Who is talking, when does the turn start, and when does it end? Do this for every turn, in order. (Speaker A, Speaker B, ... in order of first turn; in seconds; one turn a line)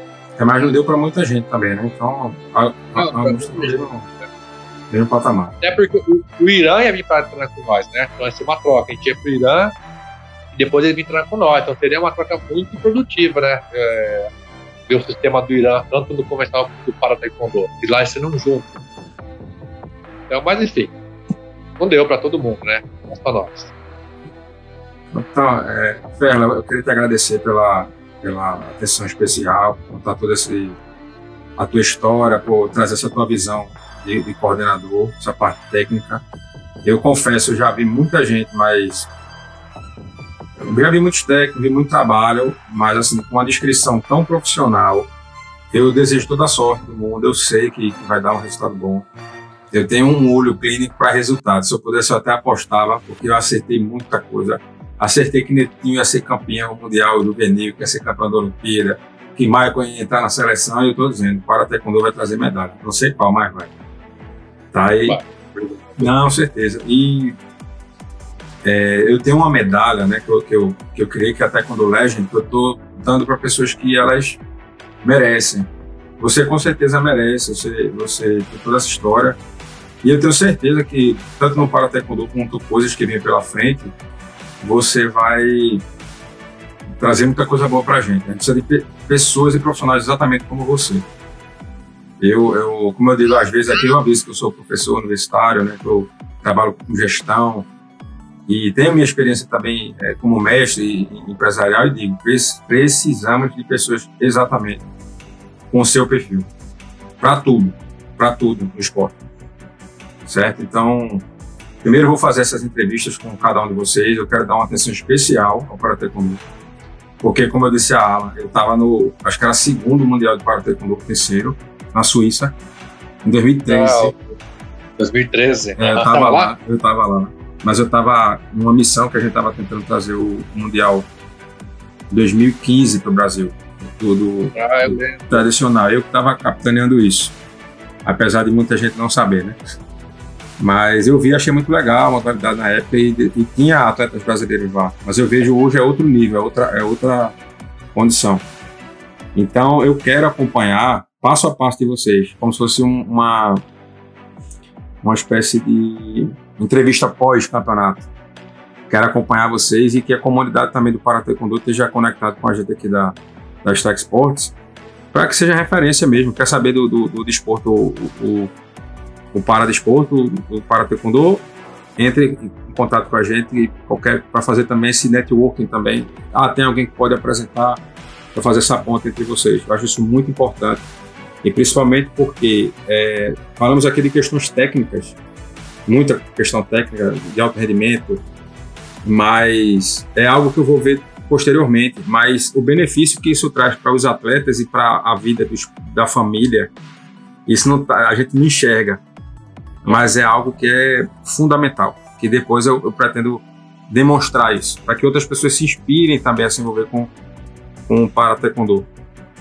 Speaker A: 0.4-4.1
Speaker B: 3.0-4.3
Speaker A: 4.9-5.5
Speaker B: 5.6-9.7
Speaker B: 10.5-14.3
Speaker B: 14.9-18.7
Speaker B: 20.3-20.9
Speaker B: 21.8-23.7
Speaker A: 25.1-30.8
Speaker A: 31.6-36.2
Speaker A: 36.8-39.1
Speaker A: 40.6-45.1
Speaker A: 45.7-49.1
Speaker A: 49.7-63.7
Speaker A: 64.7-65.2
Speaker B: 65.1-66.2
Speaker A: 66.0-67.4
Speaker A: 68.6-74.4
Speaker A: 75.0-75.7
Speaker A: 76.2-79.4
Speaker A: 80.0-84.0
Speaker A: 84.6-85.8
Speaker A: 86.9-91.1
Speaker A: 92.2-97.7
Speaker A: 98.5-104.8
Speaker A: 105.7-106.5
Speaker A: 107.2-109.2
Speaker A: 110.2-111.3
Speaker A: 111.8-116.4
Speaker A: 117.2-122.6
Speaker A: 123.2-124.1
Speaker B: 123.7-124.3
Speaker B: 125.0-126.5
Speaker A: 125.8-131.1
Speaker A: 132.1-137.3
Speaker B: 134.6-135.5
Speaker A: 138.0-139.6
Speaker A: 140.6-147.4
Speaker A: 147.9-148.4
Speaker A: 149.3-153.6
Speaker A: 155.0-158.1
Speaker A: 158.9-164.6
Speaker A: 165.1-168.5
Speaker A: 169.3-171.5
Speaker A: 172.0-177.8
Speaker A: 178.3-180.8
Speaker A: 181.4-185.2
Speaker A: 185.9-188.2
Speaker A: 189.0-196.7
Speaker A: 197.5-199.0
Speaker A: 199.8-207.1
Speaker A: 207.9-208.9